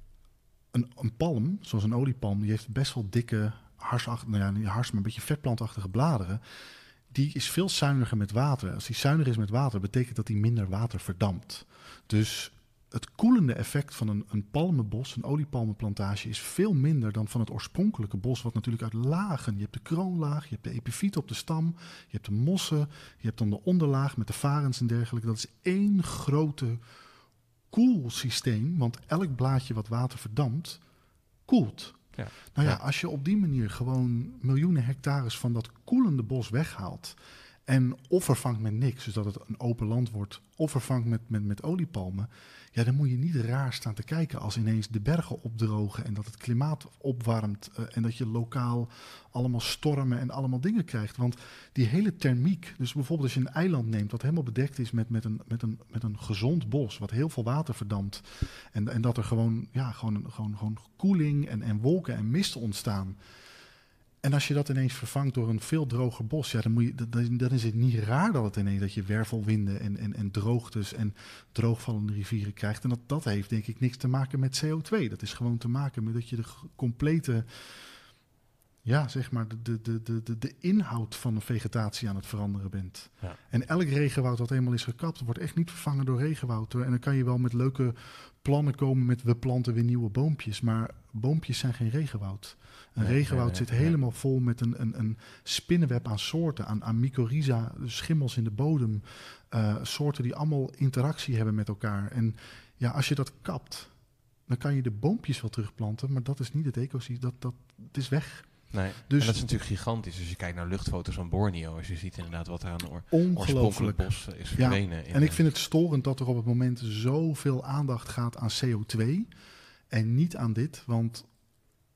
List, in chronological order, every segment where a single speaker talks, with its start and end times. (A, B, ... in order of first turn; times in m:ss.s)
0:00.7-0:06.4 A
0:07.1-0:26.8 A
0:27.7-0:30.8 A
0:31.5-1:03.2 A
0:32.2-0:32.8 B
1:04.2-1:17.9 A
1:18.8-1:43.9 A
1:33.0-1:34.0 B
1:44.5-1:49.4 A
1:48.7-1:55.4 B
1:53.1-1:59.3 A
1:59.9-2:01.3 A